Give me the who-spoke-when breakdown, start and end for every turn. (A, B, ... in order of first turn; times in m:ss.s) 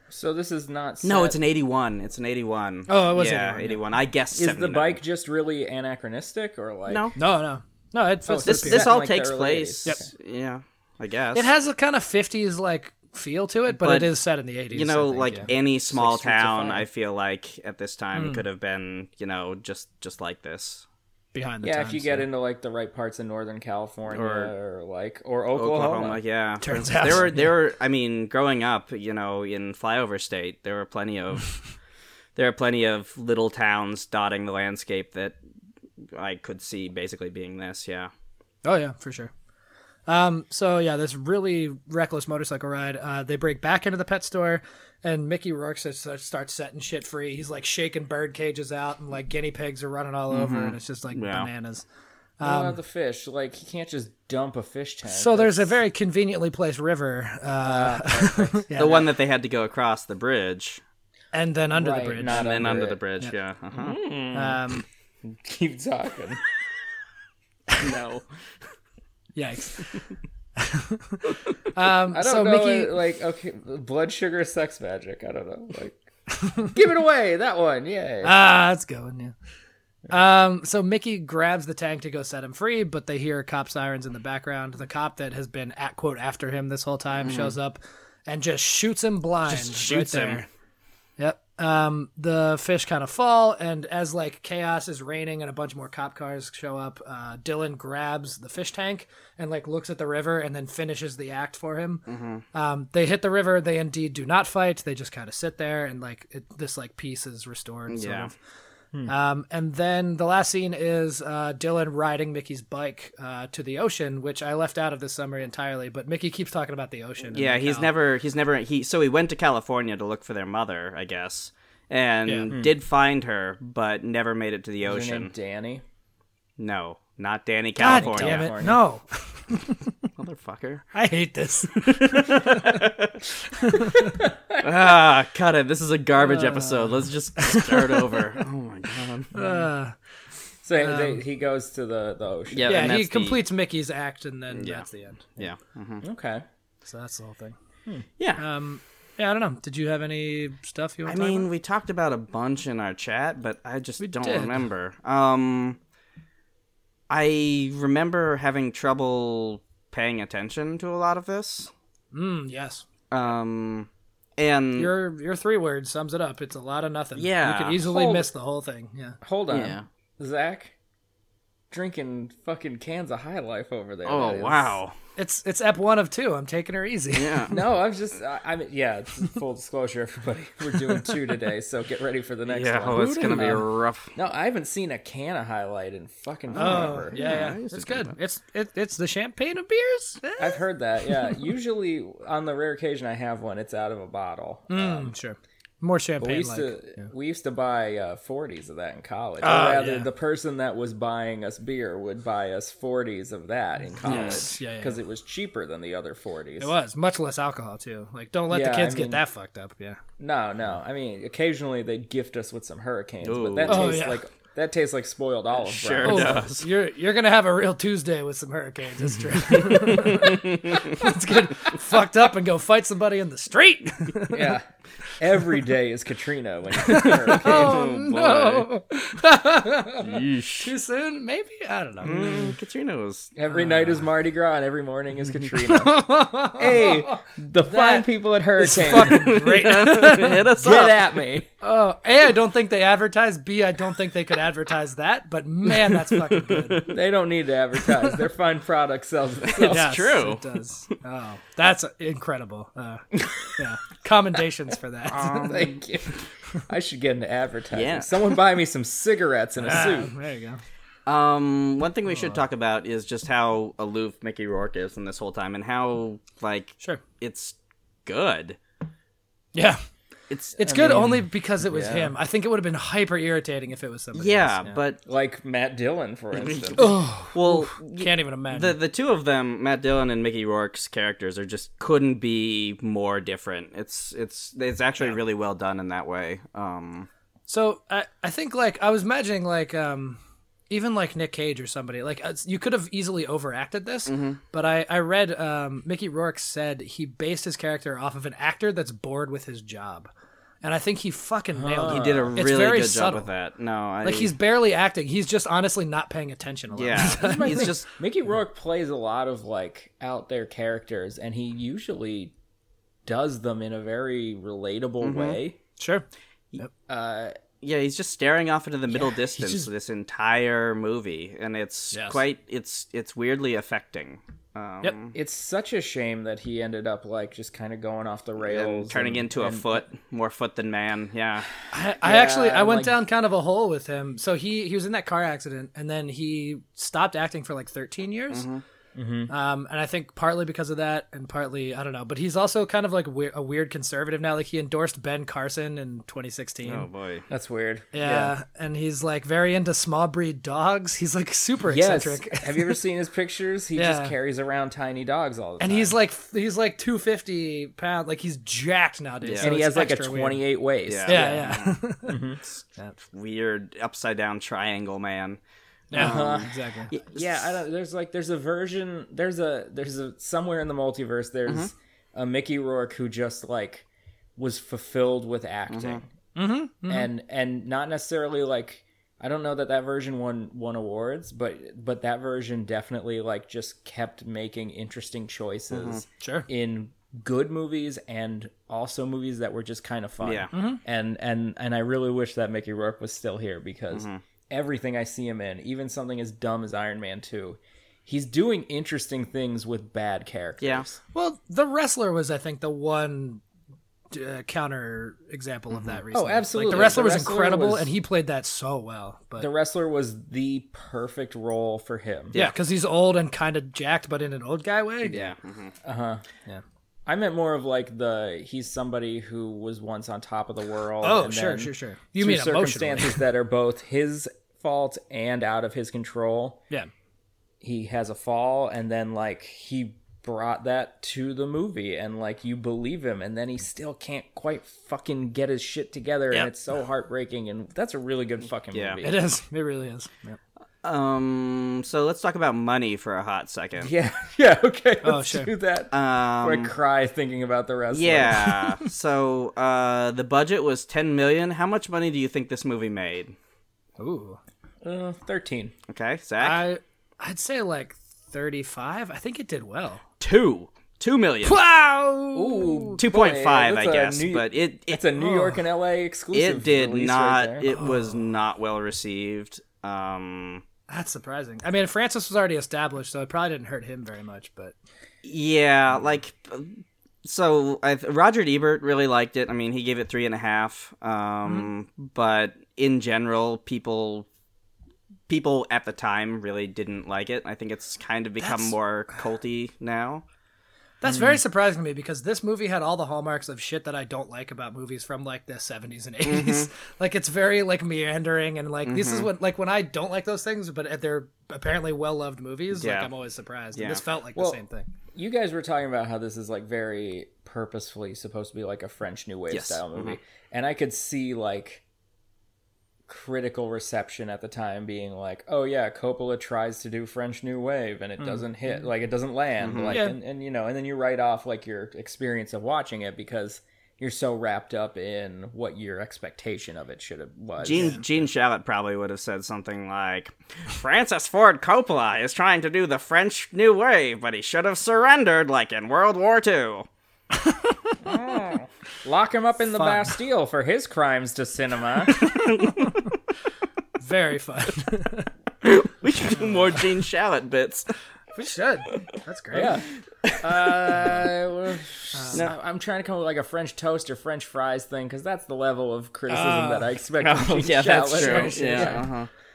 0:00.1-0:01.4 A
0:01.0-0:05.0 B
0:02.9-0:03.8 C
0:04.3-0:07.1 A
0:06.9-0:07.2 B
0:07.2-0:08.9 C
0:08.2-0:10.1 A
0:08.4-0:11.5 B
0:11.3-0:15.5 C
0:13.7-0:14.1 B
0:14.7-0:20.8 B
0:15.9-0:16.8 A
0:18.1-0:18.4 C
0:21.3-0:22.2 C
0:21.6-0:26.2 A
0:24.1-0:24.5 B
0:25.5-0:31.5 B
0:26.6-0:27.4 C
0:32.4-0:35.4 B
0:36.1-0:38.1 B
0:38.6-0:39.3 C
0:40.1-0:51.8 C
0:50.3-0:51.5 B
0:52.4-0:52.8 C
0:52.4-0:55.8 A
0:55.1-0:59.1 C
0:57.6-0:58.7 A
0:58.8-1:00.8 B
1:01.3-1:03.3 C
1:01.7-1:03.0 A
1:02.2-1:04.0 B
1:03.7-1:04.6 A
1:04.3-1:04.8 C
1:05.2-1:06.4 A
1:07.8-1:08.2 B
1:09.3-1:10.0 C
1:10.6-1:12.9 C
1:12.1-1:16.0 A
1:16.5-1:18.4 A
1:18.2-1:19.3 C
1:20.1-1:30.5 C
1:27.2-1:27.5 B
1:29.5-1:30.4 B
1:31.2-1:48.3 C
1:42.1-1:42.4 B
1:47.9-1:48.3 B
1:49.1-1:57.9 C
1:57.3-2:05.3 B
2:02.2-2:02.5 C
2:04.8-2:05.8 A
2:06.6-2:08.5 B
2:07.8-2:09.8 C
2:07.8-2:08.8 A
2:10.2-2:10.8 B
2:10.9-2:12.8 C
2:11.8-2:13.2 B
2:13.5-2:14.1 C
2:14.1-2:14.9 A
2:14.6-2:19.6 B
2:16.3-2:18.3 C
2:19.3-2:19.9 C
2:20.6-2:22.9 A
2:20.8-2:21.2 C
2:22.5-2:23.4 B
2:22.6-2:25.5 C
2:24.5-2:24.8 B
2:25.4-2:26.0 B
2:26.0-2:26.4 A
2:26.8-2:27.5 C
2:28.2-2:28.4 B
2:28.4-2:31.5 C
2:31.0-2:35.8 B
2:34.0-2:34.6 C
2:37.1-2:41.7 B
2:42.1-2:42.8 C
2:43.1-2:44.9 B
2:44.8-2:49.2 C
2:47.1-2:48.0 B
2:47.9-2:48.2 A
2:49.2-2:50.7 A
2:49.5-2:49.8 B
2:51.7-2:54.7 A
2:54.0-2:54.9 B
2:55.2-2:57.6 C
2:57.1-2:57.6 B
2:57.5-3:07.2 A
3:02.5-3:04.1 B
3:03.2-3:03.6 C
3:06.5-3:08.2 B
3:06.6-3:11.5 C
3:10.4-3:15.1 A
3:14.7-3:17.0 C
3:16.2-3:26.7 A
3:19.4-3:20.1 C
3:24.0-3:25.0 C
3:24.0-3:24.5 B
3:26.6-3:30.0 C
3:28.5-3:29.2 A
3:30.2-3:36.4 A
3:33.2-3:34.0 B
3:33.6-3:34.2 C
3:35.5-3:36.7 B
3:36.0-3:44.6 C
3:39.5-3:41.1 B
3:44.3-3:44.6 A
3:45.2-3:47.8 A
3:46.8-3:52.6 C
3:47.3-3:48.7 B
3:50.0-3:50.7 B
3:52.0-3:53.3 B
3:53.4-3:59.3 A
3:53.5-3:54.0 C
3:55.6-4:00.5 C
3:58.9-4:01.2 B
4:00.6-4:01.5 A
4:01.6-4:06.9 C
4:05.7-4:06.9 B
4:06.9-4:09.8 A
4:09.4-4:10.6 B
4:09.5-4:15.7 C
4:15.1-4:20.1 A
4:15.2-4:15.6 B
4:17.7-4:18.4 B
4:19.6-4:20.6 C
4:21.0-4:28.6 B
4:29.5-4:29.8 C
4:30.3-4:30.6 B
4:30.6-4:34.8 C
4:30.6-4:32.1 A
4:34.1-4:35.0 B
4:35.0-4:36.9 A
4:36.3-4:47.1 B
4:36.8-4:38.8 C
4:47.5-4:50.2 C
4:50.7-5:00.1 C
4:54.1-4:54.4 B
5:00.6-5:03.3 C
5:01.5-5:02.3 A
5:01.8-5:04.3 B
5:04.0-5:07.8 C
5:06.7-5:07.9 B
5:07.2-5:12.3 A
5:13.0-5:15.6 A
5:15.0-5:15.4 B
5:15.8-5:16.0 C
5:16.9-5:17.4 A
5:17.6-5:25.1 B
5:19.1-5:19.7 C
5:21.9-5:22.2 C
5:25.1-5:29.9 A
5:28.4-5:31.5 B
5:31.7-5:38.4 C
5:32.0-5:33.0 A
5:38.3-5:38.6 B
5:38.9-5:39.3 A
5:39.3-5:46.9 C
5:46.6-5:47.2 B
5:47.3-5:48.3 A
5:47.9-5:52.8 C
5:51.7-5:55.9 A
5:53.8-5:54.1 C
5:55.6-6:00.4 C
5:59.2-5:59.5 B
5:59.4-6:02.4 A
6:00.9-6:01.8 B
6:01.0-6:02.2 C
6:02.5-6:05.4 B
6:05.9-6:06.9 C
6:05.9-6:07.6 B
6:05.9-6:06.5 A
6:07.1-6:16.1 A
6:15.7-6:16.0 B
6:16.4-6:17.1 C
6:16.9-6:41.0 A
6:25.7-6:26.0 B
6:26.2-6:26.5 C
6:30.2-6:30.5 B
6:30.5-6:30.8 C
6:33.9-6:34.2 B
6:40.6-6:40.9 B
6:41.1-6:43.4 C
6:44.1-6:49.5 C
6:45.7-6:46.0 B
6:46.1-6:47.9 A
6:46.7-6:47.0 B
6:49.4-6:52.4 A
6:52.3-6:55.2 C
6:55.0-6:55.7 B
6:55.8-6:56.2 A
6:57.1-7:06.6 A
7:01.0-7:03.2 C
7:07.6-7:19.2 A
7:18.7-7:19.0 B
7:19.0-7:20.4 C
7:20.8-7:23.9 B
7:23.8-7:28.8 A
7:25.0-7:25.5 C
7:25.9-7:26.7 B
7:27.9-7:33.3 B
7:34.0-7:34.4 C
7:34.8-7:35.7 A
7:35.9-7:36.7 B
7:36.4-7:40.0 C
7:40.2-7:41.6 B
7:41.4-7:43.0 C
7:42.3-7:47.7 A
7:43.0-7:45.0 B
7:45.2-7:45.6 C
7:46.3-7:50.6 B
7:47.6-7:48.3 C
7:50.9-7:54.7 C
7:55.2-8:04.3 B
8:05.3-8:10.2 B
8:08.4-8:08.7 C
8:11.0-8:24.9 C
8:11.1-8:11.4 A
8:16.2-8:16.7 B
8:18.8-8:19.3 B
8:22.7-8:23.1 B
8:23.7-8:24.0 B
8:25.1-8:31.8 A
8:29.5-8:30.2 B
8:33.1-8:48.0 A
8:39.6-8:40.0 B
8:39.9-8:40.1 C
8:47.6-8:56.9 B
8:47.7-8:48.0 C
8:58.0-9:02.2 A
8:59.7-9:00.2 C
9:02.2-9:02.9 B
9:04.0-9:05.3 C
9:05.6-9:07.9 B
9:08.4-9:09.8 C
9:08.8-9:09.6 B
9:09.5-9:19.0 A
9:10.2-9:11.1 B
9:12.1-9:12.4 C
9:16.3-9:16.9 C
9:17.2-9:19.3 B
9:18.1-9:19.1 C